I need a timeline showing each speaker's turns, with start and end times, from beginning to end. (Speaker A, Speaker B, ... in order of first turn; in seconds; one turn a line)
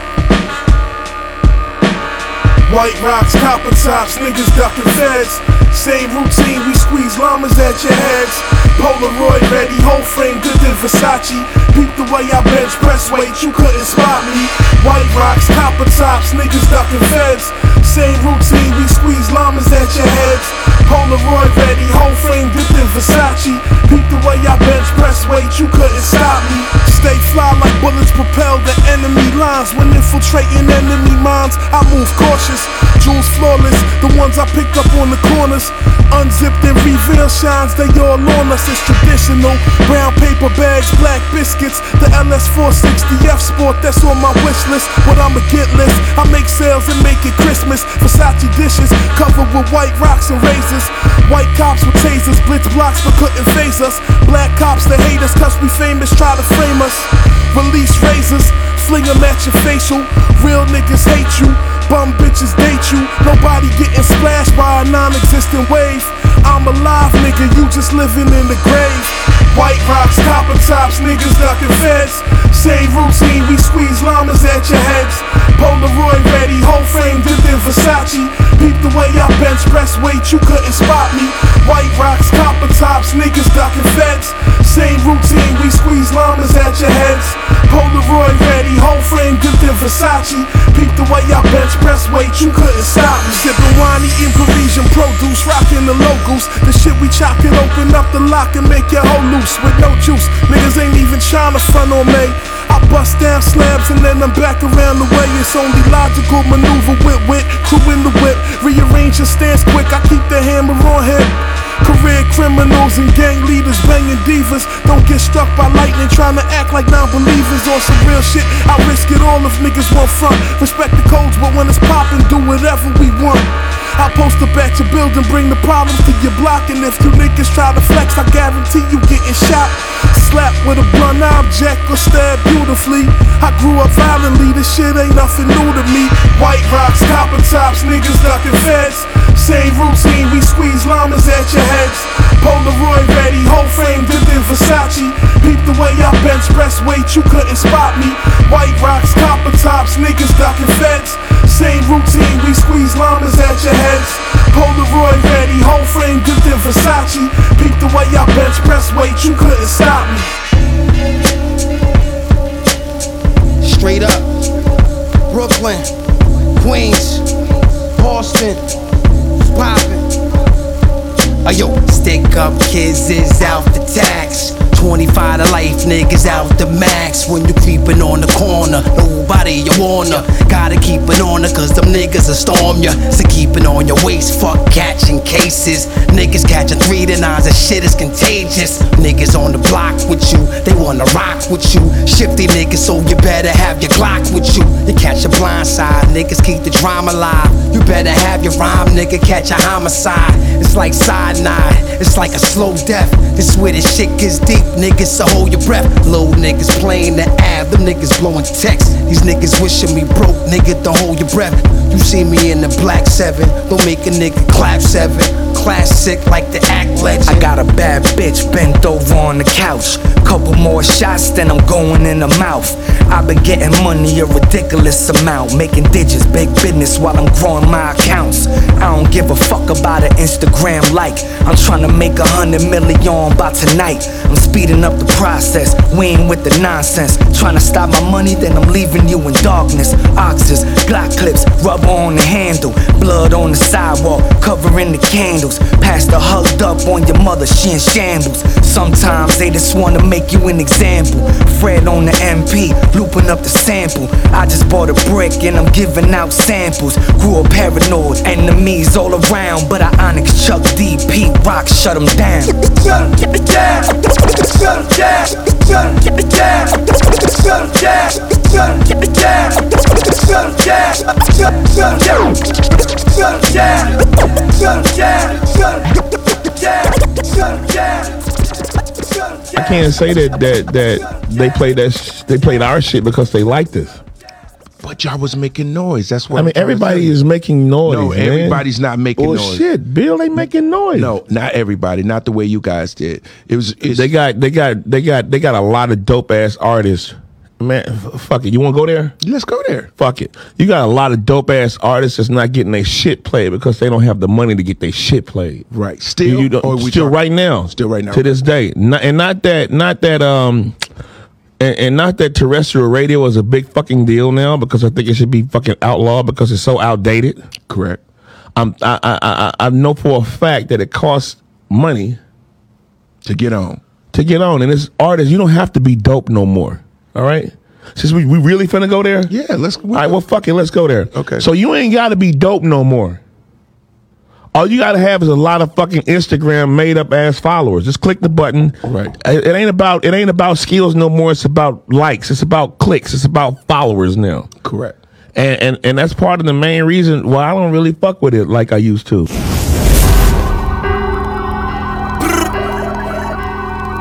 Speaker A: 2.7-160.3
Speaker B: 163.6-164.3
Speaker B: 165.3-165.9
Speaker B: 166.6-167.2
Speaker B: 167.9-168.6
Speaker B: 169.5-170.0
Speaker B: 171.4-217.5
Speaker C: 217.2-262.6
Speaker D: 279.5-284.0
Speaker E: 284.8-287.2
Speaker D: 286.3-288.6
Speaker E: 287.8-289.7
Speaker D: 289.2-291.1
Speaker E: 290.4-294.1
Speaker D: 293.9-299.2
Speaker E: 299.2-299.9
Speaker D: 300.0-305.6
Speaker E: 305.7-308.3
Speaker D: 306.2-310.8
Speaker D: 311.6-317.4
Speaker E: 317.7-318.0
Speaker D: 318.6-322.2
Speaker E: 323.2-323.8
Speaker D: 324.1-329.3
Speaker E: 329.3-330.3
Speaker D: 329.9-333.2
Speaker E: 331.1-331.5
Speaker D: 334.5-344.5
Speaker E: 338.8-339.1
Speaker E: 344.6-345.0
Speaker D: 345.3-349.3